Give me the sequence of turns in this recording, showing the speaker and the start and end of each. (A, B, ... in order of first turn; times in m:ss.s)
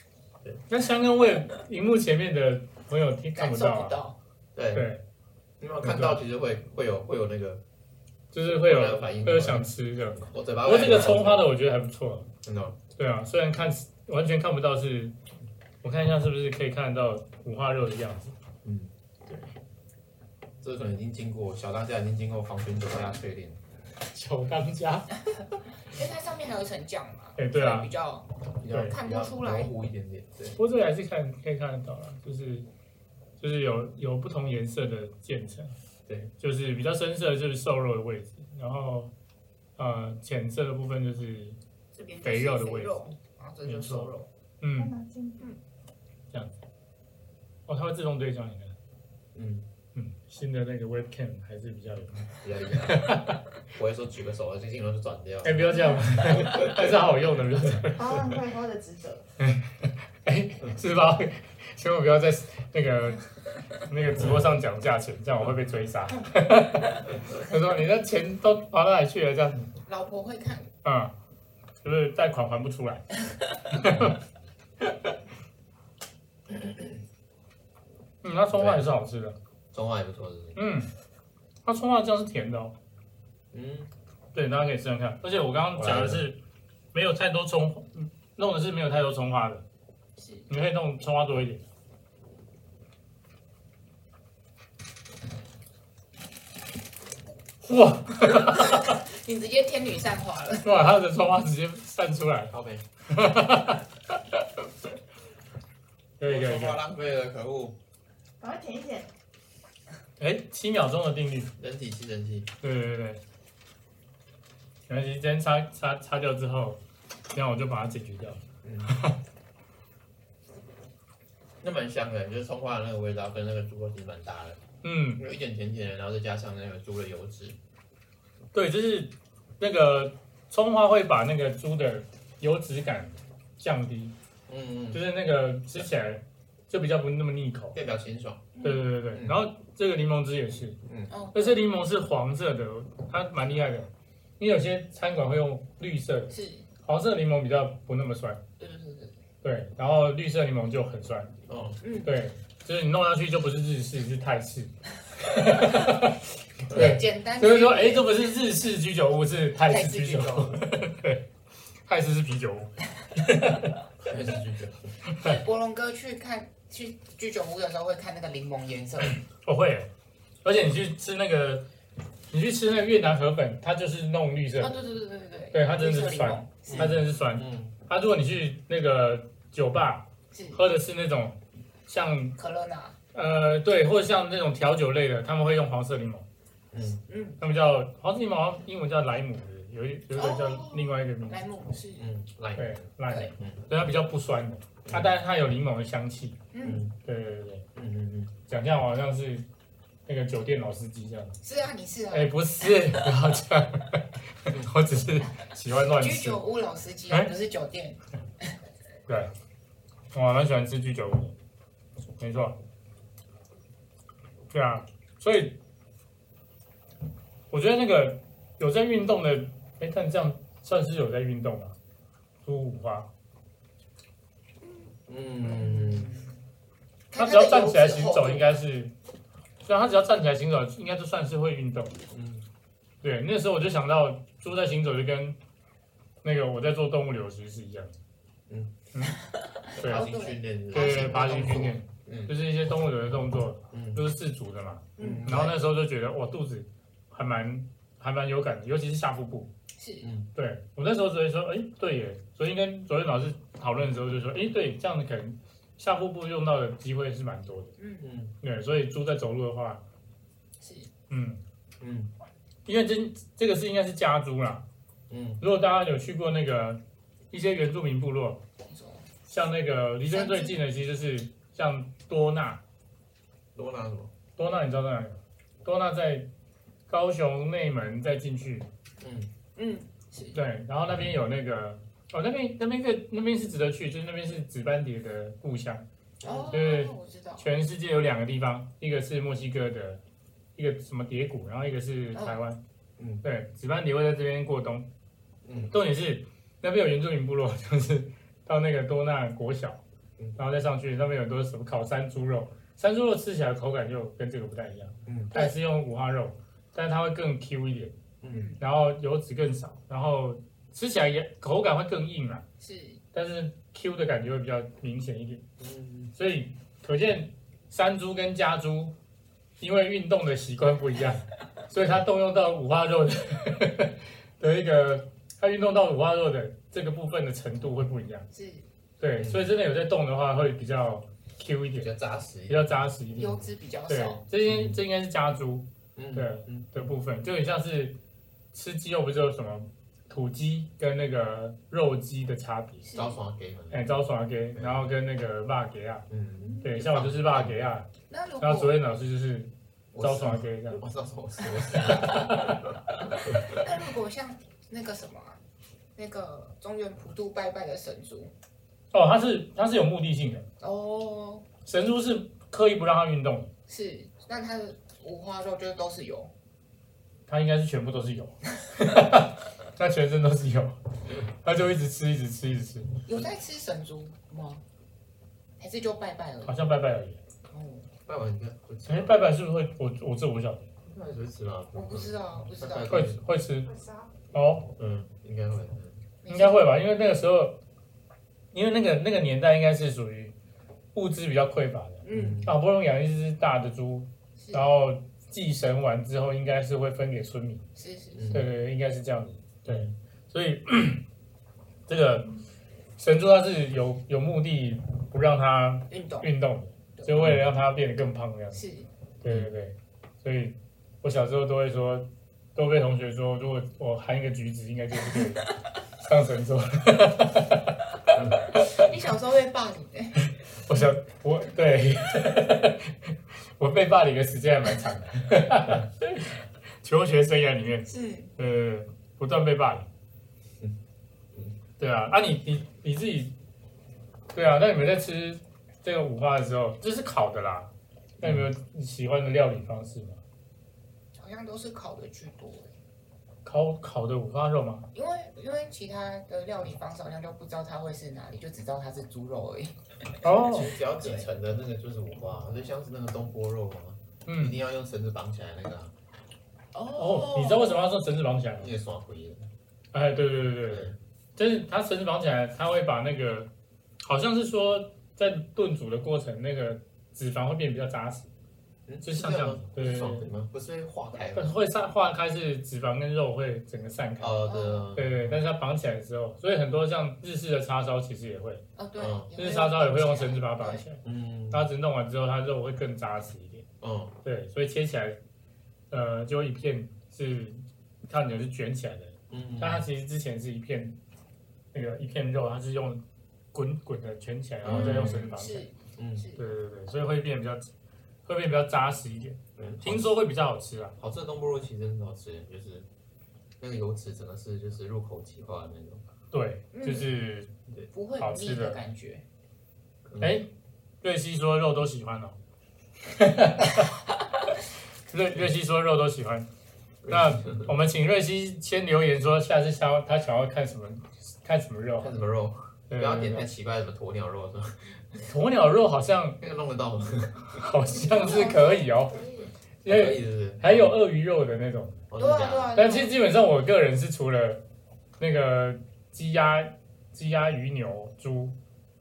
0:00.7-0:04.0 A
0:03.3-0:04.2 B
0:04.5-0:04.9 C
0:04.7-0:05.0 A
0:05.6-0:07.6 C
0:05.8-0:06.2 A
0:08.3-0:12.3 A
0:08.5-0:11.5 C
0:12.4-0:12.8 C
0:12.9-0:15.2 A
0:15.8-0:18.3 A
0:18.6-0:18.9 C
0:20.6-0:23.6 C
0:24.1-0:25.2 A
0:25.9-0:29.7 B
0:27.4-0:27.9 A
0:28.6-0:30.6 C
0:28.7-0:29.0 A
0:30.6-0:32.7 A
0:33.4-0:35.7 A
0:36.1-0:36.3 C
0:36.4-0:39.1 A
0:39.8-0:41.6 A
0:41.9-0:44.3 B
0:42.2-0:43.1 A
0:43.6-0:44.9 A
0:44.8-0:45.6 D
0:46.3-0:46.6 A
0:47.7-0:48.7 A
0:49.3-0:49.6 C
0:49.9-0:53.4 A
0:52.4-0:53.1 C
0:53.7-0:56.9 C
0:55.4-0:58.0 A
0:57.9-0:59.2 D
0:59.4-1:03.2 A
1:03.8-1:09.6 A
1:09.8-1:10.7 B
1:10.8-1:11.1 A
1:11.8-1:13.1 A
1:13.7-1:14.2 A
1:14.8-1:15.1 A
1:16.5-1:17.0 C
1:18.2-1:19.4 A
1:18.5-1:18.9 C
1:19.7-1:20.6 C
1:20.5-1:20.9 A
1:21.6-1:22.7 A
1:23.5-1:23.9 C
1:24.3-1:26.4 A
1:25.7-1:26.2 C
1:26.9-1:29.6 A
1:30.2-1:30.5 B
1:30.5-1:31.6 A
1:37.6-1:38.9 A
1:38.3-1:40.7 B
1:40.6-1:42.5 A
1:42.5-1:42.8 C
1:43.1-1:44.4 A
1:46.2-1:46.8 A
1:46.2-1:47.8 C
1:48.4-1:49.1 D
1:50.2-1:51.5 A
1:51.6-1:52.5 C
1:52.6-1:53.2 A
1:54.9-1:56.8 A
1:57.3-1:59.2 A
1:58.6-1:58.9 C
2:01.6-2:04.6 C
2:04.8-2:05.2 A
2:05.2-2:07.6 C
2:08.5-2:14.1 A
2:14.5-2:15.0 C
2:14.9-2:17.8 A
2:17.7-2:18.5 C
2:18.5-2:18.8 B
2:18.6-2:20.8 A
2:19.1-2:19.4 C
2:20.8-2:21.1 C
2:21.1-2:21.6 B
2:21.3-2:28.4 A
2:26.3-2:26.7 B
2:28.6-2:29.2 B
2:29.4-2:31.4 A
2:31.5-2:31.8 C
2:31.8-2:32.1 B
2:32.0-2:36.2 A
2:36.7-2:37.0 C
2:36.7-2:41.3 A
2:36.7-2:38.3 B
2:39.7-2:40.6 B
2:41.8-2:43.7 A
2:44.0-2:44.9 C
2:45.2-2:49.2 B
2:49.4-2:49.9 A
2:50.4-2:51.6 A
2:52.3-2:54.8 A
2:54.6-2:56.9 B
2:55.5-3:02.3 A
2:56.6-2:57.7 C
3:00.3-3:00.6 B
3:02.4-3:03.0 B
3:03.1-3:06.2 A
3:06.7-3:07.0 C
3:07.1-3:07.4 B
3:07.4-3:11.4 A
3:10.1-3:12.1 B
3:12.0-3:13.6 C
3:12.6-3:16.4 A
3:14.8-3:15.1 C
3:16.5-3:16.8 B
3:16.6-3:16.9 C
3:17.0-3:17.6 A
3:17.7-3:18.3 C
3:18.5-3:19.4 A
3:20.1-3:21.4 A
3:21.4-3:22.7 B
3:22.1-3:26.4 A
3:26.0-3:28.5 B
3:30.1-3:31.3 A
3:32.2-3:32.6 A
3:34.5-3:35.6 A
3:37.5-3:41.8 A
3:42.4-3:43.1 A
3:44.6-3:44.9 B
3:45.1-3:46.1 C
3:45.4-3:46.3 B
3:47.1-3:48.6 B
3:47.1-3:48.9 A
3:49.6-3:52.0 A
3:52.1-3:52.4 C
3:53.0-3:55.4 A
3:56.2-3:58.0 A
3:58.5-3:58.7 C
3:59.5-4:01.8 B
3:59.8-4:00.1 A
3:59.8-4:02.3 C
4:00.7-4:09.5 A
4:03.7-4:04.0 C
4:05.0-4:05.4 B
4:05.0-4:05.6 C
4:09.8-4:10.1 B
4:10.0-4:10.3 C
4:10.3-4:17.8 A
4:17.8-4:18.1 B
4:18.0-4:18.4 C
4:18.4-4:19.8 A
4:20.6-4:20.9 B
4:21.1-4:21.4 A
4:21.8-4:22.1 C
4:22.6-4:24.6 A
4:25.1-4:25.4 C
4:25.4-4:28.4 A
4:28.6-4:29.1 B
4:29.3-4:32.6 A
4:30.1-4:30.6 B
4:33.5-4:34.1 C
4:34.4-4:36.3 A
4:36.9-4:38.7 A
4:39.0-4:39.3 C
4:39.6-4:40.4 B
4:40.3-4:45.8 A
4:46.2-4:46.6 C
4:46.2-4:47.5 B
4:46.5-4:50.0 A
4:50.6-4:52.6 A
4:53.0-4:53.2 C
4:53.2-4:54.9 A
4:55.4-4:55.7 C
4:55.7-4:59.8 A
5:00.4-5:08.0 A
5:05.0-5:05.3 C
5:08.2-5:08.5 C
5:08.3-5:08.6 B
5:08.6-5:12.4 A
5:12.6-5:13.0 B
5:13.1-5:15.4 A
5:15.6-5:16.1 C
5:16.1-5:18.9 A
5:19.6-5:28.2 A
5:28.3-5:28.6 B
5:29.0-5:31.9 A
5:29.2-5:29.5 C
5:31.8-5:33.3 C
5:32.5-5:38.0 A
5:33.1-5:34.2 B
5:34.4-5:34.8 C
5:35.9-5:36.9 C
5:38.5-5:42.9 A
5:42.8-5:43.2 B
5:42.9-5:43.9 C
5:43.7-5:46.1 A
5:44.5-5:44.9 C
5:46.1-5:47.6 C
5:46.4-5:46.8 B
5:46.6-5:47.9 A
5:48.1-5:48.8 B
5:48.4-5:50.8 A
5:49.9-5:53.7 C
5:51.5-5:52.3 B
5:52.0-5:52.6 A
5:53.1-5:55.4 B
5:56.0-5:58.3 B
5:58.9-6:00.5 A
6:00.6-6:01.5 B
6:01.6-6:03.5 A
6:03.7-6:06.3 B
6:07.3-6:12.9 A
6:13.0-6:14.6 B
6:15.6-6:16.7 B
6:16.4-6:17.2 A
6:17.5-6:17.9 B
6:18.0-6:19.2 C
6:18.8-6:20.7 A
6:20.8-6:23.2 C
6:21.7-6:23.0 B
6:22.9-6:23.7 A
6:23.7-6:24.1 D
6:24.3-6:24.7 A
6:24.6-6:26.0 C
6:26.2-6:26.7 B
6:26.3-6:27.6 A
6:28.5-6:30.3 A
6:30.9-6:37.6 A
6:32.0-6:32.4 B
6:32.1-6:32.6 C
6:34.4-6:34.7 B
6:37.8-6:38.4 B
6:38.1-6:38.5 C
6:38.3-6:41.0 A
6:39.7-6:39.9 C
6:41.9-6:42.3 A
6:43.0-6:48.6 A
6:45.9-6:46.3 B
6:47.2-6:47.4 C
6:48.5-6:48.9 B
6:49.2-6:55.5 A
6:49.2-6:49.5 C
6:56.0-6:57.7 A
6:58.1-6:58.4 C
6:58.6-7:00.2 B
7:00.6-7:09.9 A
7:07.9-7:08.3 B
7:11.8-7:13.3 A
7:14.3-7:20.2 A
7:18.2-7:18.5 C
7:21.2-7:22.7 B
7:23.4-7:24.9 A
7:24.9-7:29.8 B
7:30.2-7:30.7 A
7:30.2-7:35.9 C
7:31.0-7:31.3 B
7:34.2-7:34.6 A
7:36.7-7:37.8 B
7:37.0-7:38.7 A
7:38.6-7:39.5 C
7:39.9-7:43.5 A
7:40.7-7:41.0 C
7:44.0-7:48.3 A
7:48.9-7:51.6 C
7:49.0-7:50.3 A
7:51.3-7:58.6 A
7:54.2-7:55.4 C
7:54.4-7:54.9 B
7:58.8-8:00.8 B
7:59.0-7:59.3 C
7:59.4-8:03.7 A
8:01.0-8:01.7 C
8:03.8-8:04.2 C
8:04.2-8:05.2 A
8:05.9-8:11.0 A
8:09.3-8:09.8 C
8:11.7-8:15.7 A
8:14.6-8:15.3 C
8:14.6-8:16.4 B
8:16.0-8:16.3 C
8:16.4-8:17.7 A
8:18.2-8:21.0 A
8:19.6-8:20.1 C
8:21.0-8:22.9 C
8:23.6-8:26.0 C
8:26.3-8:27.5 A
8:26.7-8:27.1 B
8:27.9-8:29.2 B
8:28.2-8:28.8 A
8:30.0-8:30.3 C
8:30.2-8:30.5 A
8:31.0-8:32.4 A
8:33.1-8:33.9 A
8:35.1-8:36.5 A
8:37.0-8:37.7 C
8:37.1-8:42.2 A
8:42.0-8:45.2 C
8:42.9-8:43.5 A
8:45.2-8:46.4 A
8:46.4-8:47.6 C
8:47.6-8:49.2 A
8:47.9-8:49.4 B
8:49.8-8:52.0 A
8:49.8-8:51.0 C
8:52.1-8:52.8 C
8:52.2-8:53.1 B
8:52.7-8:54.6 A
8:55.2-8:58.6 A